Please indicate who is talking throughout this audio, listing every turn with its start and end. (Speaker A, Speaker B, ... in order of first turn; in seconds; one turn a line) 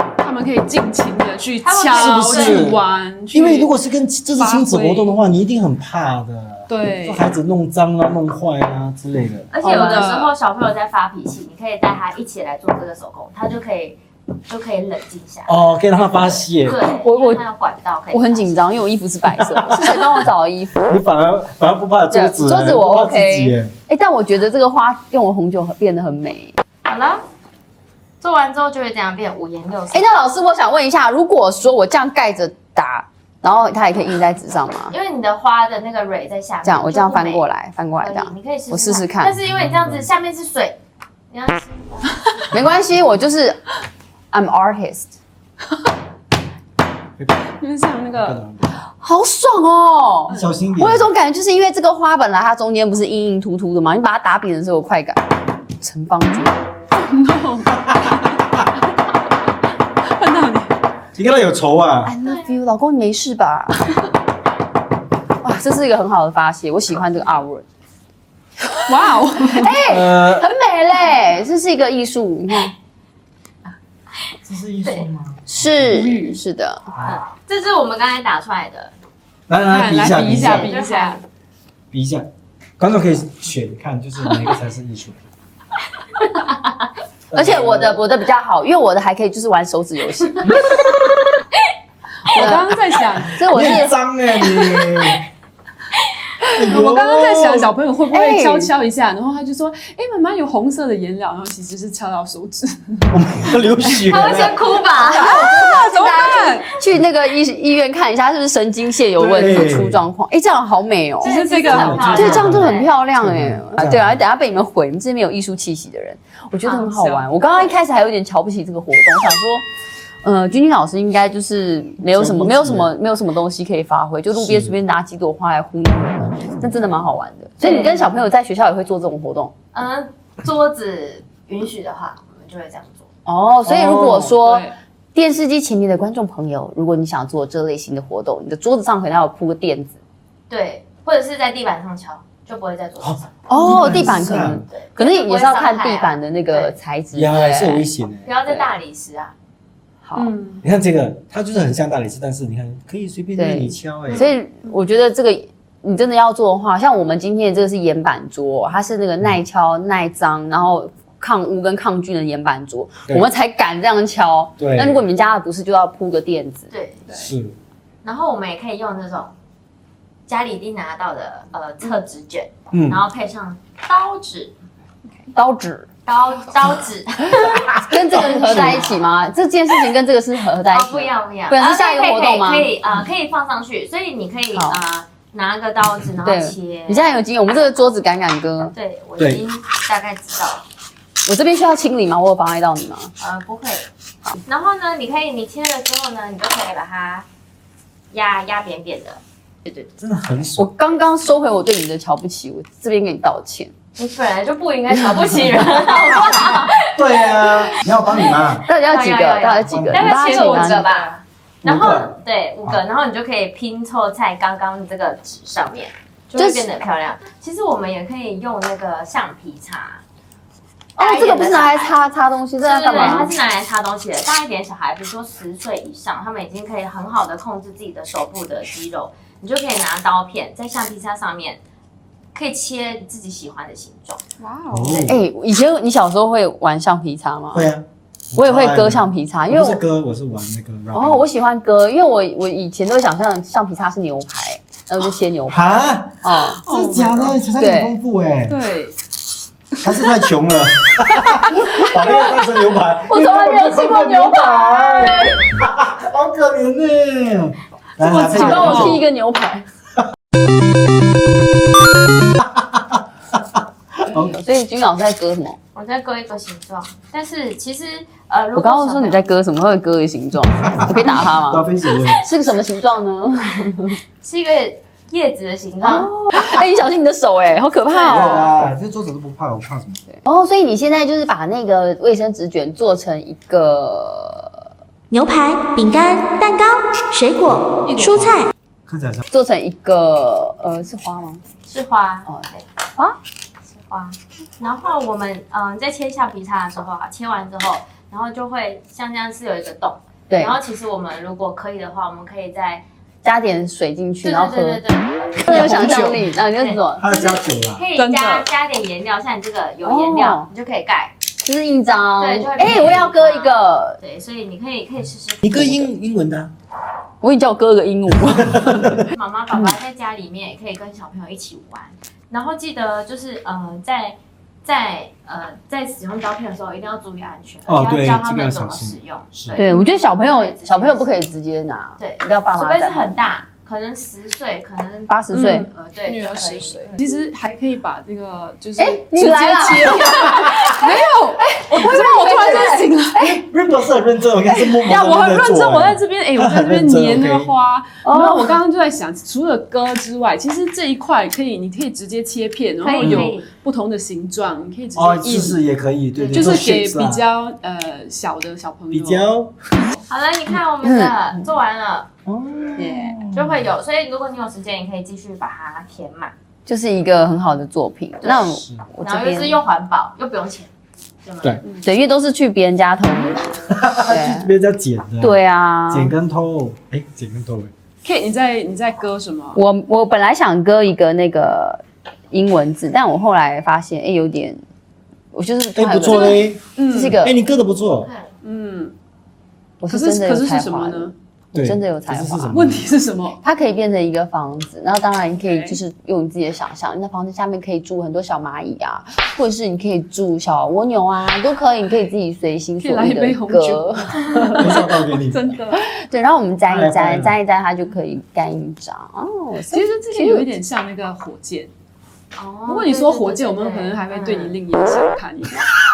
Speaker A: 0.2-5.2
Speaker B: 1.6-2.8
Speaker C: 1.9-2.8
Speaker C: 3.3-9.5
Speaker A: 6.7-7.3
Speaker B: 9.5-18.7
Speaker D: 9.6-10.1
Speaker A: 9.6-10.3
Speaker C: 15.5-16.8
Speaker D: 16.8-17.4
Speaker D: 18.1-20.9
Speaker C: 20.9-23.7
Speaker D: 22.1-26.6
Speaker B: 26.9-27.2
Speaker B: 28.2-30.1
Speaker D: 29.9-35.0
Speaker B: 34.9-40.8
Speaker D: 36.6-39.4
Speaker C: 39.5-40.1
Speaker B: 41.3-42.5
Speaker D: 42.5-43.7
Speaker D: 44.3-45.1
Speaker C: 47.2-47.5
Speaker A: 47.6-48.5
Speaker C: 48.1-48.8
Speaker D: 49.0-55.2
Speaker A: 50.3-50.5
Speaker C: 50.3-51.1
Speaker D: 55.8-56.6
Speaker A: 56.9-58.6
Speaker A: 60.1-60.8
Speaker C: 61.2-62.1
Speaker D: 62.0-63.8
Speaker D: 65.4-67.7
Speaker A: 68.9-69.8
Speaker D: 69.5-72.7
Speaker C: 69.7-70.5
Speaker C: 74.5-76.1
Speaker B: 74.8-75.1
Speaker D: 75.5-76.9
Speaker A: 75.9-76.4
Speaker B: 77.0-78.9
Speaker C: 79.5-80.7
Speaker A: 79.6-81.2
Speaker B: 80.3-81.2
Speaker C: 81.9-85.2
Speaker B: 86.2-86.7
Speaker C: 87.3-88.0
Speaker D: 87.3-90.8
Speaker A: 92.3-93.4
Speaker D: 92.3-92.7
Speaker D: 93.3-94.0
Speaker C: 93.4-95.2
Speaker A: 96.5-103.1
Speaker C: 96.5-97.7
Speaker D: 98.1-98.7
Speaker C: 103.1-104.7
Speaker B: 104.1-105.6
Speaker A: 105.1-106.7
Speaker D: 105.1-119.6
Speaker C: 109.2-110.0
Speaker A: 111.2-112.6
Speaker B: 111.2-112.9
Speaker C: 111.7-114.2
Speaker B: 116.6-117.6
Speaker D: 120.2-129.5
Speaker C: 122.1-122.9
Speaker C: 124.3-124.8
Speaker B: 127.6-128.1
Speaker B: 129.7-133.1
Speaker D: 133.3-139.9
Speaker C: 133.7-134.3
Speaker A: 134.3-134.8
Speaker B: 140.5-146.8
Speaker C: 143.0-144.6
Speaker D: 143.5-147.9
Speaker C: 147.1-148.3
Speaker B: 148.2-149.3
Speaker D: 150.0-150.3
Speaker A: 150.2-150.6
Speaker C: 150.6-154.3
Speaker D: 153.4-166.7
Speaker C: 164.6-165.0
Speaker B: 166.7-167.1
Speaker C: 167.1-167.6
Speaker B: 168.0-169.3
Speaker B: 170.3-174.5
Speaker C: 172.7-173.0
Speaker D: 175.3-175.9
Speaker B: 176.1-177.8
Speaker D: 177.8-182.7
Speaker C: 178.2-178.8
Speaker B: 180.7-187.2
Speaker D: 186.2-188.8
Speaker B: 188.7-190.6
Speaker C: 189.2-189.4
Speaker D: 191.3-193.1
Speaker B: 193.2-193.9
Speaker B: 194.4-197.3
Speaker B: 198.1-199.8
Speaker C: 200.0-200.7
Speaker D: 200.6-203.7
Speaker B: 203.9-207.7
Speaker C: 206.9-208.7
Speaker D: 208.7-210.9
Speaker B: 208.8-220.0
Speaker C: 209.7-210.0
Speaker A: 210.0-211.2
Speaker C: 211.6-212.1
Speaker D: 216.4-216.7
Speaker D: 221.0-223.3
Speaker B: 221.0-221.9
Speaker B: 222.6-231.6
Speaker B: 232.3-234.2
Speaker A: 234.4-235.1
Speaker C: 234.7-235.2
Speaker D: 235.0-237.7
Speaker C: 237.5-241.2
Speaker D: 238.4-239.8
Speaker D: 240.9-246.6
Speaker C: 245.5-248.6
Speaker A: 246.5-247.4
Speaker D: 247.6-248.0
Speaker A: 248.4-248.9
Speaker C: 249.8-259.0
Speaker A: 249.8-250.2
Speaker D: 251.6-252.2
Speaker D: 253.1-255.4
Speaker A: 258.0-259.0
Speaker D: 258.2-259.6
Speaker C: 264.1-264.4
Speaker D: 264.1-265.6
Speaker B: 265.7-269.3
Speaker D: 268.6-274.0
Speaker C: 270.7-272.2
Speaker B: 274.2-276.1
Speaker D: 275.8-278.5
Speaker B: 277.9-278.5
Speaker C: 278.1-280.0
Speaker D: 280.1-284.6
Speaker E: 285.1-288.5
Speaker A: 287.8-288.5
Speaker C: 288.9-289.2
Speaker D: 289.3-291.4
Speaker B: 291.7-292.7
Speaker D: 292.3-293.2
Speaker B: 293.7-302.8
Speaker D: 300.3-300.6
Speaker D: 303.2-304.8
Speaker B: 304.2-311.1
Speaker D: 305.4-307.1
Speaker A: 305.5-306.0
Speaker C: 305.5-306.1
Speaker C: 307.0-307.8
Speaker A: 307.9-308.5
Speaker D: 309.8-310.5
Speaker D: 311.4-314.0
Speaker B: 312.2-315.6
Speaker C: 315.4-316.5
Speaker D: 315.6-315.9
Speaker D: 317.2-319.0
Speaker C: 318.7-319.0
Speaker B: 319.1-331.1
Speaker C: 327.7-329.6
Speaker D: 329.5-333.2
Speaker B: 332.0-336.9
Speaker D: 335.1-335.7
Speaker A: 335.3-343.3
Speaker D: 338.8-341.0
Speaker C: 340.0-340.6
Speaker D: 341.6-343.4
Speaker C: 343.2-347.5
Speaker A: 344.4-355.6
Speaker D: 348.0-348.6
Speaker B: 352.8-353.5
Speaker C: 353.0-353.3
Speaker C: 354.9-357.2
Speaker B: 356.2-356.6
Speaker A: 356.3-359.3
Speaker C: 358.9-359.9
Speaker B: 360.1-362.1
Speaker D: 360.8-361.3
Speaker C: 362.3-363.7
Speaker D: 362.8-363.2
Speaker B: 363.3-366.3
Speaker D: 366.7-369.6
Speaker B: 368.2-370.7
Speaker B: 371.2-371.6
Speaker D: 371.8-374.5
Speaker C: 373.7-375.4
Speaker D: 375.2-376.1
Speaker C: 375.9-377.7
Speaker A: 378.0-379.6
Speaker D: 379.5-384.6
Speaker D: 385.3-387.4
Speaker C: 385.8-386.6
Speaker A: 386.0-387.2
Speaker C: 387.2-388.1
Speaker B: 388.0-388.3
Speaker A: 388.4-388.9
Speaker D: 389.8-392.6
Speaker A: 389.9-391.1
Speaker C: 391.5-392.9
Speaker A: 392.5-393.4
Speaker D: 393.4-404.2
Speaker A: 395.4-395.8
Speaker A: 402.8-405.8
Speaker C: 404.6-405.5
Speaker D: 405.7-410.5
Speaker C: 406.7-407.4
Speaker A: 409.7-411.7
Speaker B: 412.4-414.6
Speaker A: 412.7-415.7